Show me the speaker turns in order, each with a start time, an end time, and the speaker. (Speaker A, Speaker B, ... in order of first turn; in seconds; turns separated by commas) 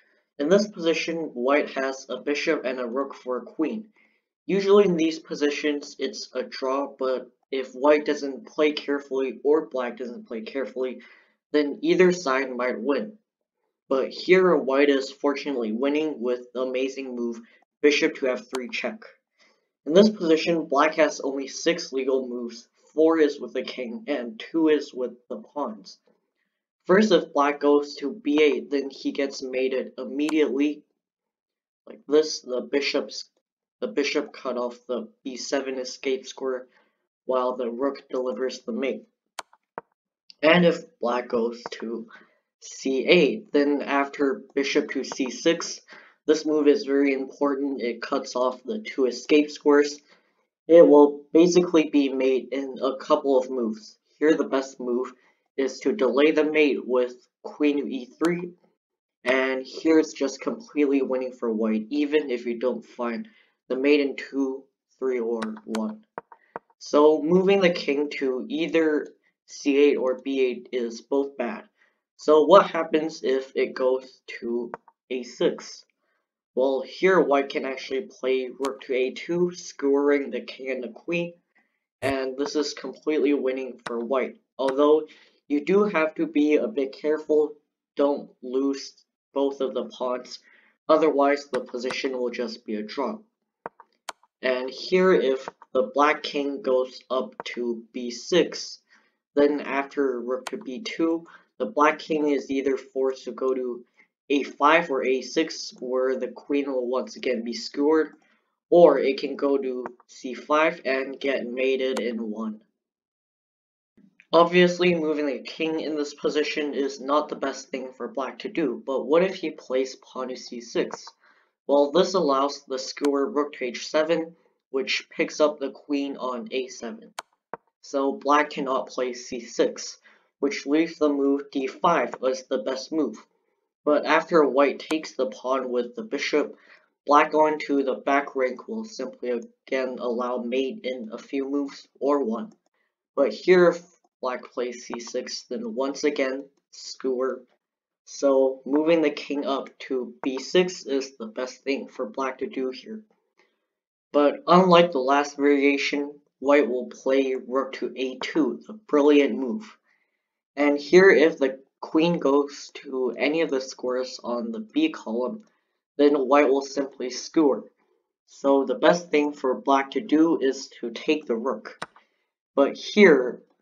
Speaker A: 0.4-3.9, Speaker A: 4.5-11.0, Speaker A: 11.5-13.2, Speaker A: 13.9-19.1, Speaker A: 19.8-26.0, Speaker A: 26.8-30.8, Speaker A: 31.9-33.3, Speaker A: 33.8-36.7, Speaker A: 37.2-39.0, Speaker A: 40.4-42.1, Speaker A: 42.6-50.0, Speaker A: 50.7-58.5, Speaker A: 59.2-66.0, Speaker A: 66.8-75.9, Speaker A: 76.5-81.3, Speaker A: 82.0-93.2, Speaker A: 94.4-98.8, Speaker A: 99.3-108.2, Speaker A: 108.7-112.7, Speaker A: 114.3-121.2, Speaker A: 121.7-127.1, Speaker A: 127.8-133.3, Speaker A: 133.8-142.5, Speaker A: 143.2-147.4, Speaker A: 148.1-153.0, Speaker A: 154.1-159.8, Speaker A: 160.6-165.4, Speaker A: 166.0-167.7, Speaker A: 168.2-171.8, Speaker A: 172.6-173.4